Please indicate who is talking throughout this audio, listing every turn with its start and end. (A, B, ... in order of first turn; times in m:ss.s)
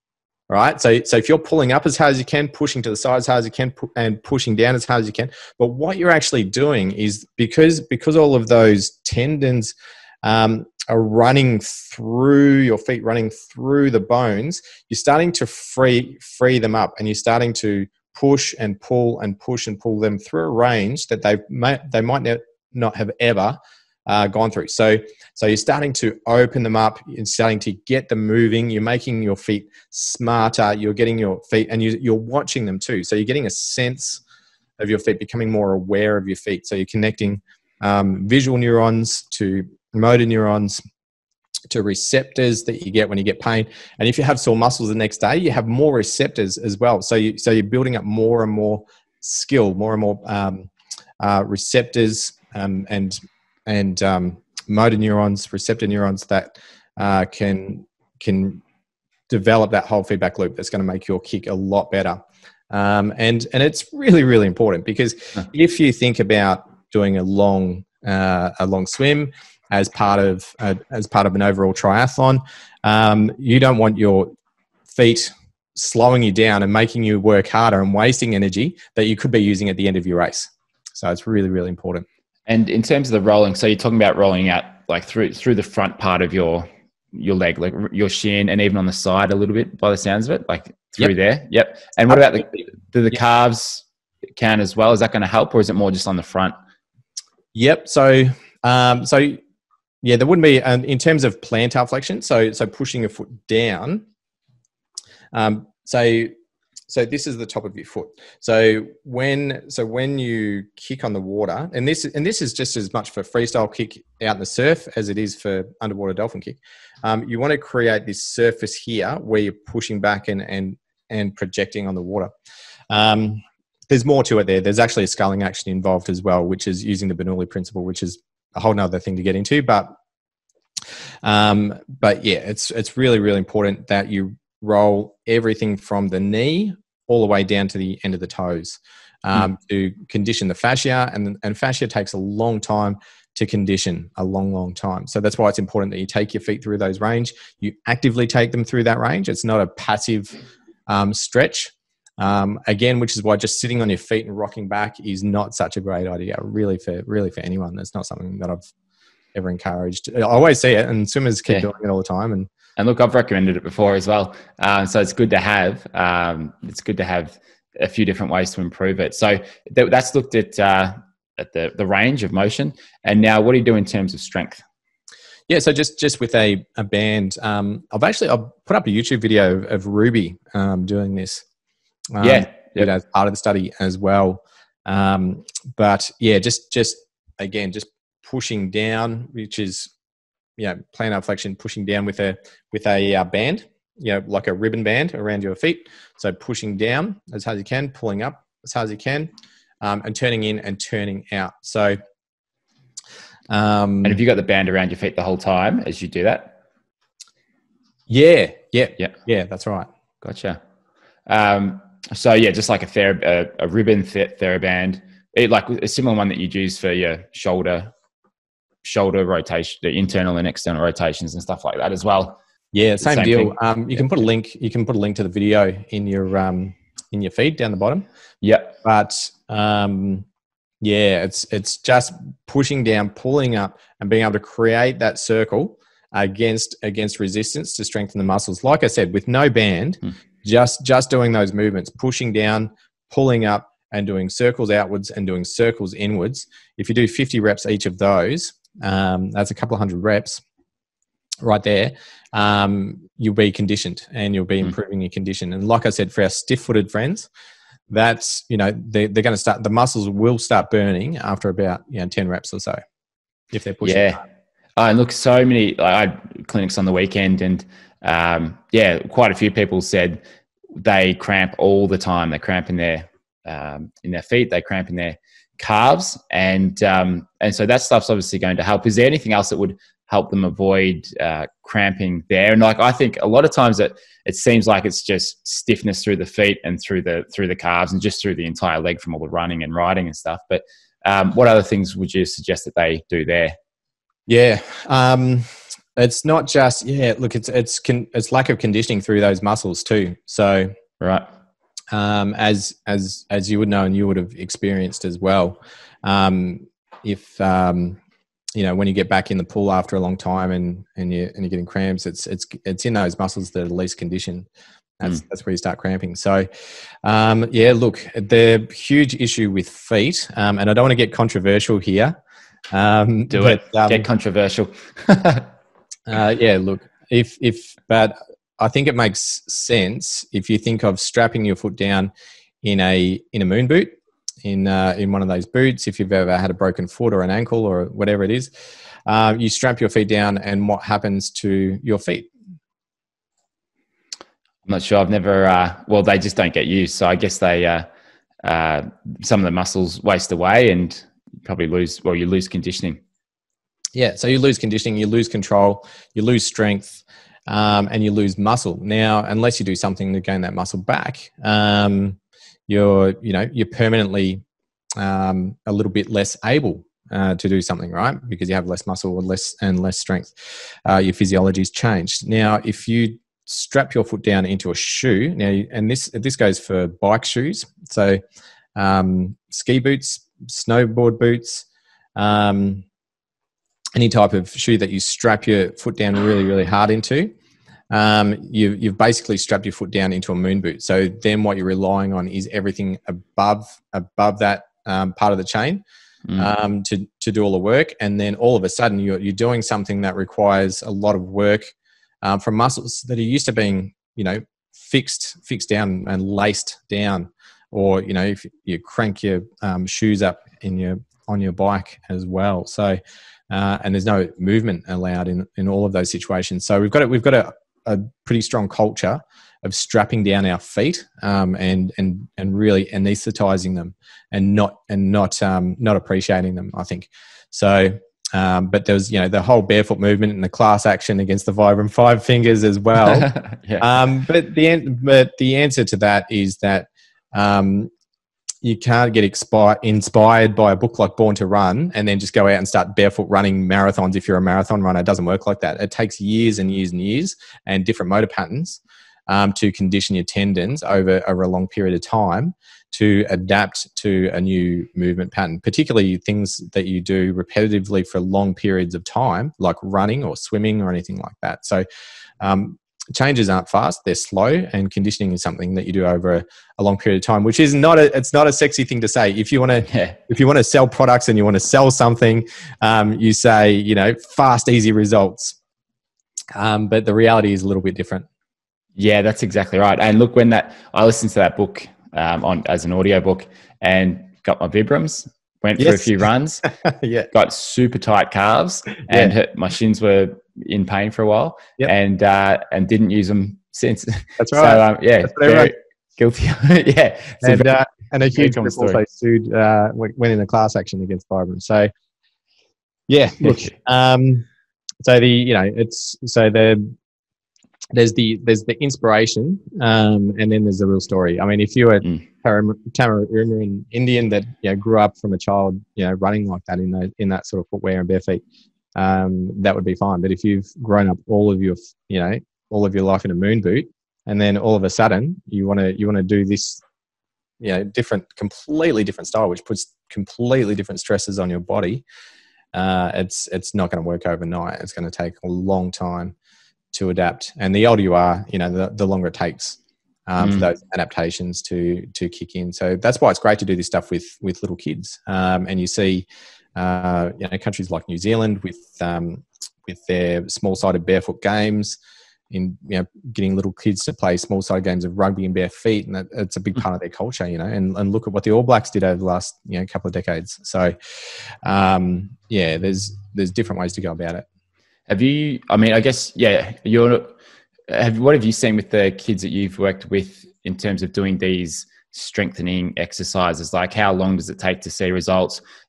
0:00.5-0:34.2 A
0:34.8-0:40.8 A
0:41.7-0:58.6 A
0:59.3-1:14.3 A
1:14.9-1:22.1 A
1:22.5-1:33.8 B
1:32.1-1:32.6 A
1:34.4-1:36.5 B
1:37.5-1:39.4 A
1:40.0-1:44.1 A
1:45.3-1:46.3 A
1:46.9-2:02.3 A
2:02.9-2:10.0 A
2:11.2-2:38.6 A
2:39.3-2:42.5 A
2:42.8-2:54.6 B
2:55.5-3:01.4 A
3:02.1-3:09.9 A
3:02.2-3:02.9 B
3:10.6-3:19.3 A
3:19.8-3:22.0 A
3:23.5-3:24.2 A
3:24.0-3:26.6 B
3:28.1-3:29.9 A
3:30.2-3:30.6 B
3:31.3-3:37.9 B
3:38.8-3:42.4 B
3:42.7-3:48.0 A
3:43.0-3:43.6 B
3:48.4-3:48.8 B
3:48.8-3:50.2 A
3:50.8-4:10.4 A
4:11.4-4:17.3 A
4:17.9-4:22.8 A
4:23.5-4:24.2 A
4:23.8-4:24.2 B
4:24.8-4:30.2 B
4:30.8-4:53.6 B
4:54.3-5:00.7 A
5:01.0-5:01.3 B
5:01.9-5:08.0 A
5:08.6-5:14.5 A
5:15.0-5:16.5 A
5:17.0-5:22.2 A
5:22.7-5:24.1 A
5:23.3-5:25.5 B
5:26.1-5:32.1 A
5:32.6-5:38.5 A
5:39.1-5:42.3 A
5:44.7-5:47.9 B
5:48.4-5:53.0 B
5:54.0-6:04.4 A
6:05.0-6:10.4 A
6:10.9-6:18.2 A
6:18.8-6:22.8 A
6:24.0-6:27.3 A
6:27.9-6:35.8 A
6:36.4-6:41.7 A
6:42.2-6:53.0 A
6:53.5-7:17.9 A
7:13.1-7:13.9 B
7:18.6-7:41.8 A
7:42.4-7:55.6 A
7:49.9-7:50.2 B
7:56.5-7:58.3 A
7:59.0-8:06.6 B
8:05.8-8:06.1 A
8:06.6-8:07.3 A
8:07.3-8:17.7 B
8:09.1-8:09.3 A
8:14.4-8:15.7 A
8:17.4-8:21.9 A
8:18.4-8:19.0 B
8:23.1-8:24.5 A
8:23.4-8:23.7 B
8:25.0-8:26.9 A
8:27.9-8:38.4 A
8:39.0-8:46.8 A
8:47.6-8:52.0 A
8:52.7-8:56.4 A
8:56.9-9:12.0 A
9:00.4-9:00.7 B
9:12.5-9:21.0 A
9:21.6-9:24.4 A
9:25.1-9:27.4 B
9:27.9-9:35.6 B